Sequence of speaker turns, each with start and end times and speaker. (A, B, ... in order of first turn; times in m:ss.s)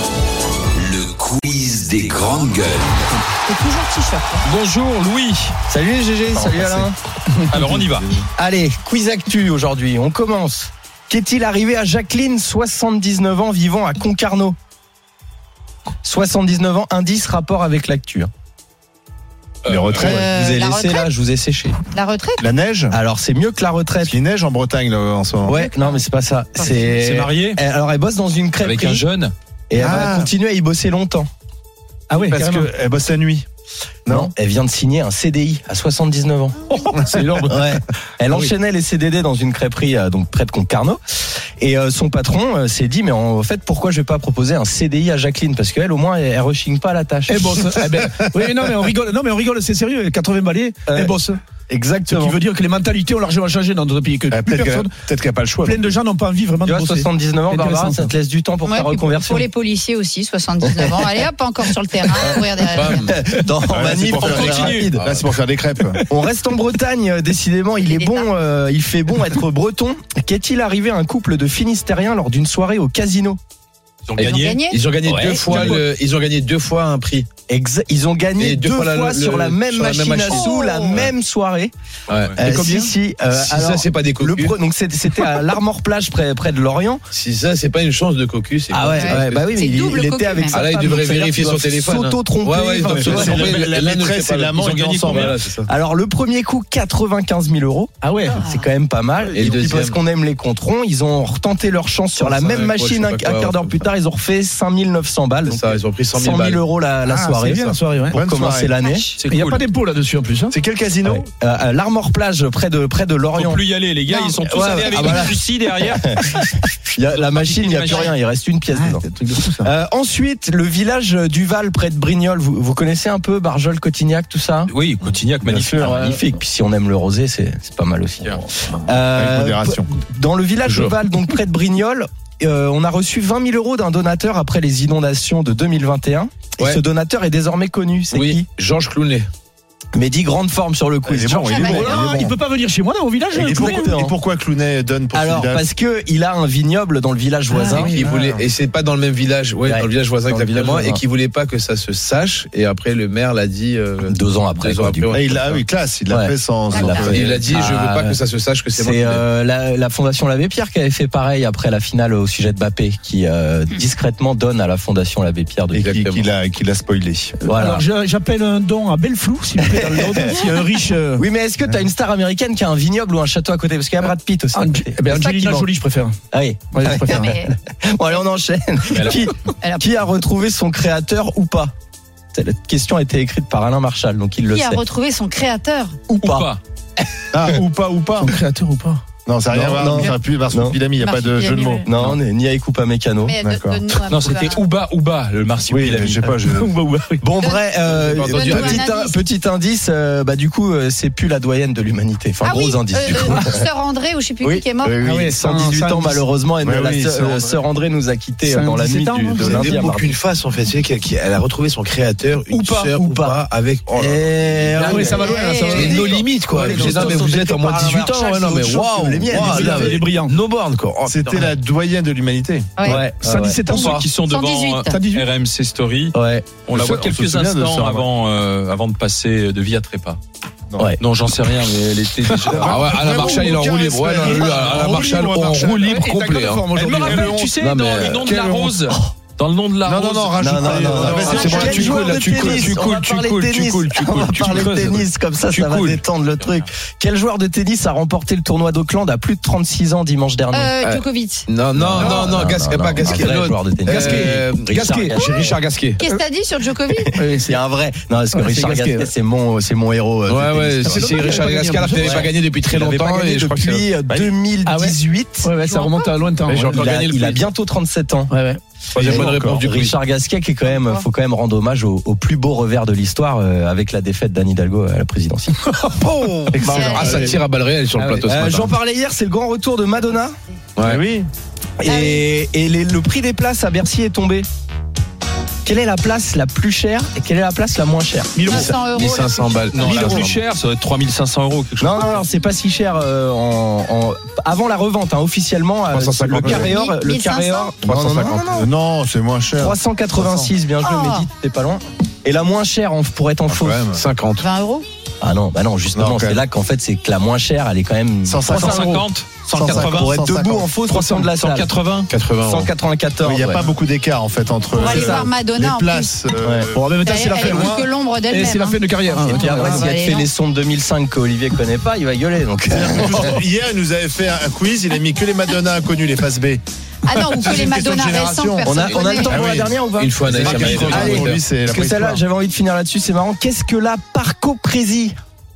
0:00.7-0:03.0 A
0:03.5-0:04.5 B
0:04.4-0:05.6 C
0:05.7-0:06.9 D
0:06.4-0:06.8 C
0:07.5-0:08.2 C
0:08.4-0:14.6 D
0:16.0-0:18.3 D
0:19.6-0:20.0 C
0:19.6-0:20.2 E
0:19.9-0:21.1 B
0:20.0-0:21.8 D
0:21.9-0:22.4 B
0:22.4-0:23.0 E
0:22.9-0:24.2 D
0:24.0-0:25.6 E
0:25.4-0:29.1 D
0:26.8-0:27.6 C
0:28.6-0:29.3 C
0:29.7-0:31.3 D
0:29.7-0:30.3 E
0:32.1-0:32.7 F
0:32.1-0:33.4 E
0:34.0-0:34.3 E
0:34.1-0:36.6 D
0:36.8-0:37.5 F
0:37.0-0:37.6 C
0:37.4-0:47.4 D
0:47.3-0:51.4 F
0:50.9-0:51.1 D
0:51.7-0:52.4 D
0:52.1-0:55.0 F
0:54.3-0:55.8 E
0:55.6-0:58.1 F
0:56.6-0:59.4 D
0:58.6-1:03.1 B
1:00.6-1:01.1 D
1:02.0-1:05.0 D
1:02.6-1:03.2 G
1:03.7-1:06.0 E
1:04.2-1:04.7 C
1:04.3-1:05.2 G
1:06.0-1:13.4 D
1:07.8-1:08.3 B
1:14.1-1:14.5 C
1:14.2-1:17.3 G
1:14.2-1:14.8 B
1:15.0-1:15.8 D
1:15.4-1:15.8 F
1:17.5-1:21.7 D
1:18.4-1:21.1 G
1:20.3-1:21.0 B
1:22.1-1:24.6 G
1:22.1-1:22.4 C
1:22.4-1:27.0 D
1:27.1-1:29.5 G
1:28.7-1:33.5 D
1:28.9-1:30.7 B
1:30.5-1:35.7 G
1:32.8-1:35.4 E
1:35.1-1:49.1 D
1:38.0-1:38.4 F
1:38.4-1:38.7 B
1:39.3-1:40.0 G
1:42.2-1:43.9 G
1:45.4-1:46.6 G
1:47.0-1:48.2 F
1:48.1-1:48.7 E
1:48.8-1:49.1 B
1:49.2-1:49.6 C
1:49.2-1:50.6 F
1:50.5-1:51.2 E
1:51.0-1:59.0 D
1:53.3-1:58.1 C
1:54.5-1:55.0 B
1:58.7-1:59.7 F
1:59.6-2:04.7 D
2:04.7-2:06.2 C
2:05.4-2:18.5 D
2:09.1-2:09.9 E
2:10.6-2:10.9 G
2:18.1-2:19.3 G
2:19.9-2:22.0 D
2:21.0-2:22.4 E
2:21.5-2:22.2 B
2:21.6-2:24.0 F
2:23.3-2:25.6 E
2:23.4-2:24.1 D
2:25.1-2:28.0 D
2:27.6-2:35.5 G
2:27.9-2:28.4 E
2:29.6-2:31.0 D
2:34.0-2:38.2 D
2:35.1-2:37.4 E
2:36.7-2:37.4 B
2:36.9-2:39.2 G
2:38.7-2:45.9 D
2:45.7-2:46.3 G
2:45.8-2:47.4 E
2:47.4-2:51.2 F
2:47.5-2:47.8 D
2:49.6-2:50.5 D
2:51.2-2:55.6 D
2:54.5-2:56.2 F
2:56.3-3:01.7 D
2:56.7-2:57.3 F
2:57.0-2:57.5 B
2:59.6-2:59.9 B
3:02.3-3:04.8 D
3:04.5-3:06.0 B
3:06.1-3:06.5 D
3:06.2-3:06.6 C
3:07.3-3:08.3 E
3:08.2-3:09.0 F
3:09.2-3:12.2 E
3:09.5-3:10.8 D
3:11.0-3:11.9 B
3:11.8-3:13.4 D
3:13.2-3:14.6 B
3:13.4-3:13.8 E
3:13.9-3:17.2 C
3:15.7-3:16.7 E
3:17.2-3:23.7 D
3:17.4-3:17.6 B
3:17.8-3:18.8 G
3:18.2-3:19.2 B
3:22.4-3:25.0 B
3:24.4-3:30.1 D
3:24.8-3:25.2 E
3:25.0-3:26.2 F
3:26.6-3:27.6 E
3:28.4-3:29.9 F
3:29.4-3:41.5 G
3:32.5-3:33.4 D
3:33.9-3:40.0 D
3:34.8-3:37.2 F
3:35.2-3:36.0 B
3:39.3-3:40.4 F
3:41.0-3:42.7 E
3:42.8-3:43.0 B
3:42.8-3:43.7 D
3:43.0-3:44.1 F
3:43.6-3:45.0 B
3:43.7-3:50.2 C
3:44.9-3:45.3 F
3:46.1-3:46.6 D
3:46.7-3:48.1 E
3:51.0-3:53.3 C
3:52.3-3:58.4 G
3:52.4-3:56.1 E
3:55.9-3:57.6 F
3:56.8-3:57.6 E
3:56.8-4:06.0 C
3:58.2-3:58.8 E
3:59.8-4:02.1 E
4:00.4-4:10.7 D
4:01.3-4:01.9 B
4:02.3-4:03.1 G
4:10.5-4:11.5 B
4:10.8-4:16.0 G
4:11.7-4:15.5 D
4:12.0-4:12.2 F
4:13.9-4:14.4 F
4:16.0-4:17.1 B
4:17.0-4:21.1 D
4:17.1-4:17.6 F
4:18.3-4:19.1 F
4:20.3-4:23.9 G
4:20.8-4:22.3 F
4:22.0-4:25.5 D
4:24.6-4:26.8 F
4:25.7-4:26.1 B
4:26.4-4:27.5 G
4:26.6-4:28.3 D
4:28.3-4:28.6 F
4:28.9-4:29.6 E
4:28.9-4:30.0 G
4:29.0-4:35.5 D
4:30.6-4:31.0 B
4:36.0-4:38.7 G
4:36.5-4:37.4 E
4:36.6-4:37.3 B
4:36.6-4:37.3 D
4:38.2-4:40.3 D
4:40.8-4:41.0 G
4:40.8-4:41.3 E
4:41.8-4:44.5 D
4:41.8-4:42.3 B
4:45.6-4:48.7 D
4:48.3-4:48.7 F
4:48.4-4:50.0 B
4:48.7-4:50.4 G
4:49.7-4:52.1 C
4:51.8-4:58.7 D
4:55.9-4:56.7 G
4:56.3-4:56.7 E
4:56.6-4:57.8 B
4:57.8-4:58.5 G
4:57.8-5:00.5 E
4:59.5-5:03.9 D
5:00.8-5:01.3 B
5:03.5-5:04.0 E
5:03.9-5:04.4 G
5:04.4-5:04.8 B
5:05.2-5:09.0 D
5:05.9-5:06.4 E
5:08.2-5:10.7 E
5:08.5-5:10.1 C
5:09.6-5:11.7 D
5:10.8-5:12.1 C
5:12.1-5:12.7 G
5:12.4-5:13.7 D
5:13.2-5:17.8 E
5:14.7-5:16.2 B
5:14.8-5:15.3 D
5:16.4-5:16.7 D
5:16.7-5:19.9 F
5:17.0-5:20.3 B
5:19.2-5:23.4 D
5:22.7-5:26.6 E
5:27.0-5:29.5 B
5:27.2-5:32.2 E
5:28.6-5:35.1 D
5:28.8-5:29.2 G
5:29.9-5:31.4 G